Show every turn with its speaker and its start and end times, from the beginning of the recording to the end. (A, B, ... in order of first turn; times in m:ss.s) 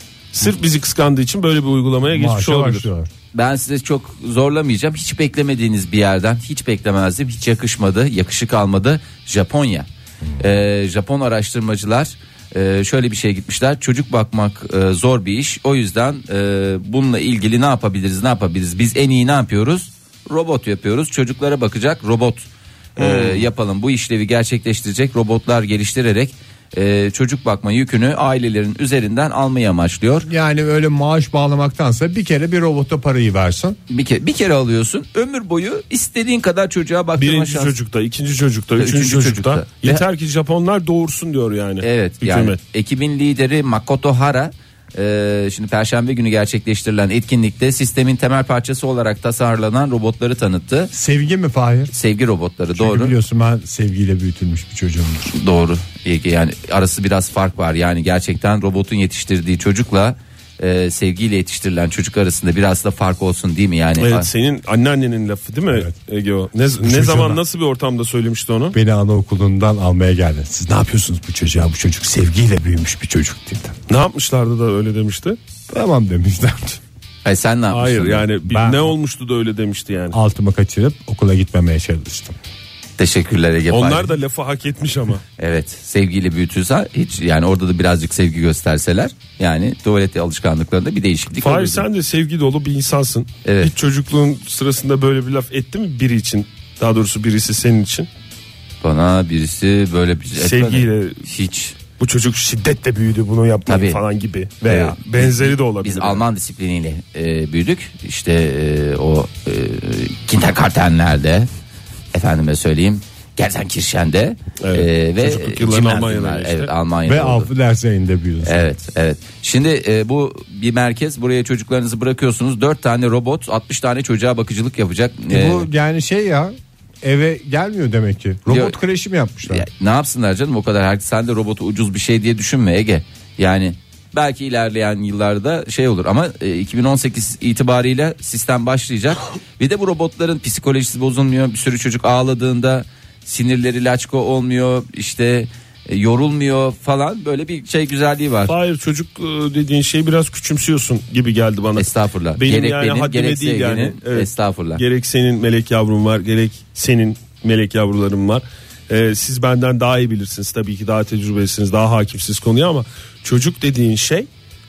0:00.3-0:02.9 A
0:02.1-0:03.1 B
0:03.3-0:30.3 C
0:23.0-0:23.4 A
0:30.3-0:33.8 B
0:33.9-0:37.7 C
0:37.2-0:42.6 A
0:38.8-0:40.0 C
0:41.8-0:50.9 C
0:50.9-0:51.9 B
0:51.9-0:53.1 C
0:52.8-0:55.3 B
0:55.3-1:04.3 C
1:04.0-1:08.8 A
1:06.8-1:07.4 B
1:08.7-1:13.7 B
1:13.9-1:15.4 A
1:15.7-1:16.8 B
1:17.2-1:18.3 C
1:17.7-1:20.2 A
1:18.5-1:18.9 B
1:20.1-1:22.4 B
1:23.0-1:24.1 C
1:23.7-1:25.2 A
1:25.4-1:31.8 C
1:31.4-1:38.1 A
1:33.4-1:33.7 C
1:38.8-1:41.7 C
1:40.4-1:41.2 A
1:42.0-1:46.2 A
1:43.7-1:44.0 C
1:44.6-1:51.5 C
1:52.1-1:57.5 C
1:54.6-1:56.7 A
1:57.0-1:58.6 B
1:58.4-2:05.7 C
2:05.3-2:09.6 B
2:08.5-2:08.8 C
2:09.5-2:28.5 C
2:28.5-2:44.3 A
2:31.8-2:34.8 C